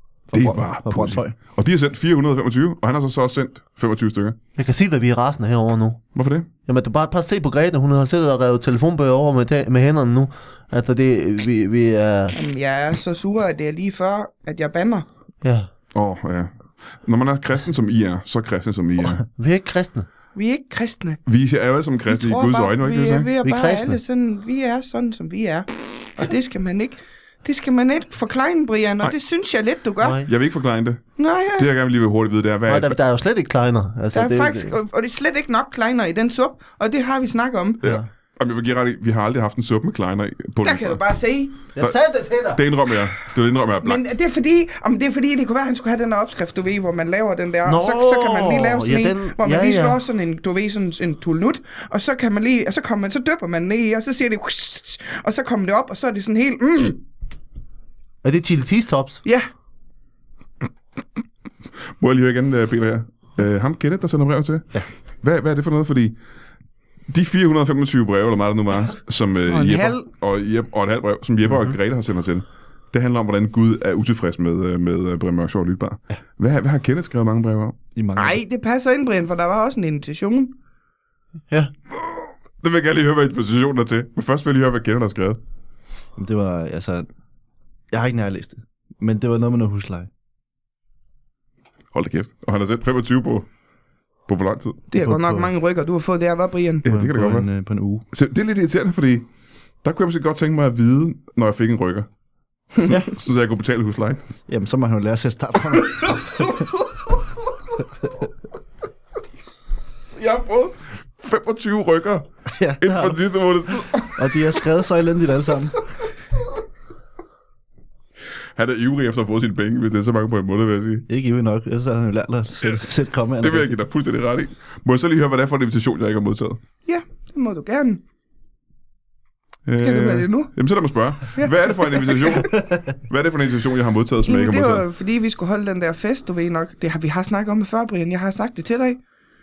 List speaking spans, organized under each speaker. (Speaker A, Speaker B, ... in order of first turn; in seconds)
Speaker A: 0.3-1.4, 78.0-78.4, 86.2-87.1, 87.9-90.1, 94.9-95.5, 96.8-98.0, 102.8-103.1, 104.5-106.7, 112.6-113.2, 114.0-115.8, 121.1-123.8
Speaker B: 0.3-4.4, 6.2-6.5, 15.9-19.2, 21.3-23.3, 30.2-33.0, 37.8-41.0, 42.5-44.1, 62.0-66.2, 67.1-77.8, 82.1-85.4, 91.9-93.5, 94.3-94.8, 96.8-97.5, 98.1-99.3, 99.8-102.1, 102.7-104.2, 110.1-112.3, 112.8-114.4, 118.6-121.1, 123.4-126.6, 129.7-134.8
Speaker C: 4.6-6.0, 6.7-12.4, 15.4-15.7, 19.4-20.1, 23.4-24.0, 30.0-30.3, 32.7-34.8, 41.8-42.6, 47.6-50.0, 58.2-59.2
Speaker D: 12.3-15.1, 20.4-21.2, 22.1-30.2, 31.2-31.7, 34.1-37.8, 40.6-41.6, 43.8-57.0, 69.5-70.1, 78.2-80.5, 94.9-96.8, 126.9-128.0, 129.8-130.5, 131.4-132.2, 134.3-139.0